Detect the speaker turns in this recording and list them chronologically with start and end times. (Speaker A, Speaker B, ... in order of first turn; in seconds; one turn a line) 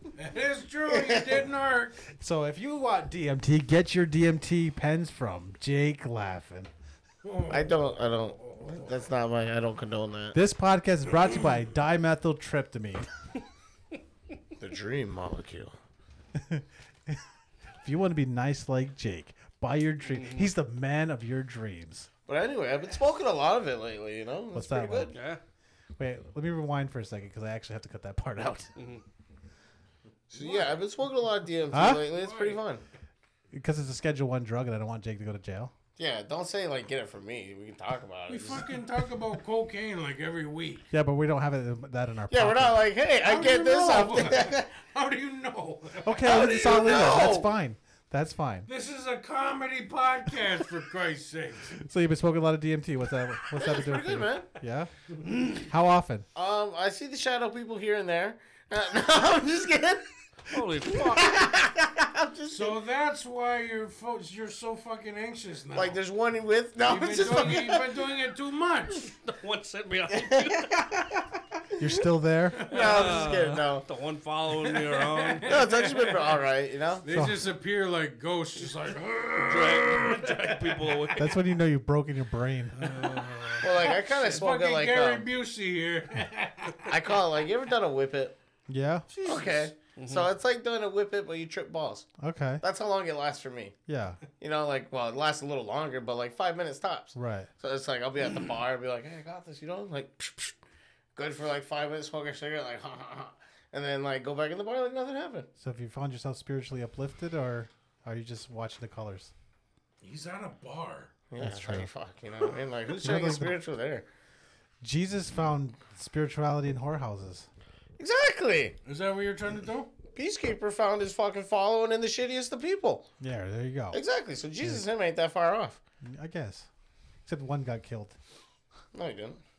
Speaker A: 0.2-2.1
Speaker B: 0.9-1.4
Speaker C: 2.2-6.7
Speaker A: 7.2-8.9
Speaker B: 7.5-10.4
Speaker C: 10.3-13.1
Speaker B: 14.6-15.7
Speaker C: 16.3-17.2
Speaker C: 17.8-22.1
Speaker D: 20.0-20.5
Speaker B: 22.3-25.2
Speaker C: 24.5-25.1
Speaker D: 25.1-25.4
Speaker C: 26.0-28.7
Speaker D: 28.8-29.0
Speaker B: 30.3-32.8
Speaker A: 30.4-30.9
Speaker C: 31.7-32.1
Speaker A: 31.8-32.6
Speaker C: 33.5-35.7
Speaker B: 36.0-38.8
Speaker A: 38.3-40.9
Speaker C: 40.9-42.9
Speaker B: 42.3-44.7
Speaker A: 43.2-46.9
Speaker C: 46.0-48.7
Speaker B: 46.2-47.5
Speaker A: 48.7-51.8
Speaker C: 51.8-54.9
Speaker B: 53.5-54.5
Speaker C: 55.4-56.3
Speaker B: 56.4-60.2
Speaker D: 60.5-61.5
Speaker B: 60.8-62.8
Speaker A: 62.5-66.0
Speaker B: 65.7-68.0
Speaker A: 66.8-69.1
Speaker D: 69.1-70.9
Speaker B: 70.1-72.0
Speaker C: 71.8-72.7
Speaker A: 72.6-73.2
Speaker B: 72.6-73.9
Speaker D: 72.7-75.7
Speaker A: 74.7-76.4
Speaker B: 75.4-77.1
Speaker A: 77.0-81.1
Speaker C: 77.1-77.5
Speaker D: 79.5-81.4
Speaker C: 81.2-82.8
Speaker D: 82.7-83.9
Speaker A: 82.8-87.0
Speaker B: 83.6-85.3
Speaker B: 86.8-88.4
Speaker C: 88.7-89.1
Speaker A: 89.1-89.7
Speaker B: 89.2-92.1
Speaker D: 90.0-90.3
Speaker C: 92.2-92.6
Speaker B: 92.6-93.7
Speaker C: 93.9-94.2
Speaker B: 94.4-100.6
Speaker C: 97.2-97.5
Speaker B: 101.2-105.5
Speaker C: 105.6-109.3
Speaker A: 110.0-111.1
Speaker B: 111.3-114.1
Speaker C: 111.4-111.9
Speaker C: 113.0-113.6
Speaker C: 114.8-117.5
Speaker B: 118.0-118.8
Speaker A: 118.8-119.9
Speaker B: 120.1-123.1
Speaker C: 123.2-124.0
Speaker B: 123.9-125.8
Speaker C: 126.0-126.7
Speaker C: 127.3-128.2
Speaker B: 128.9-129.4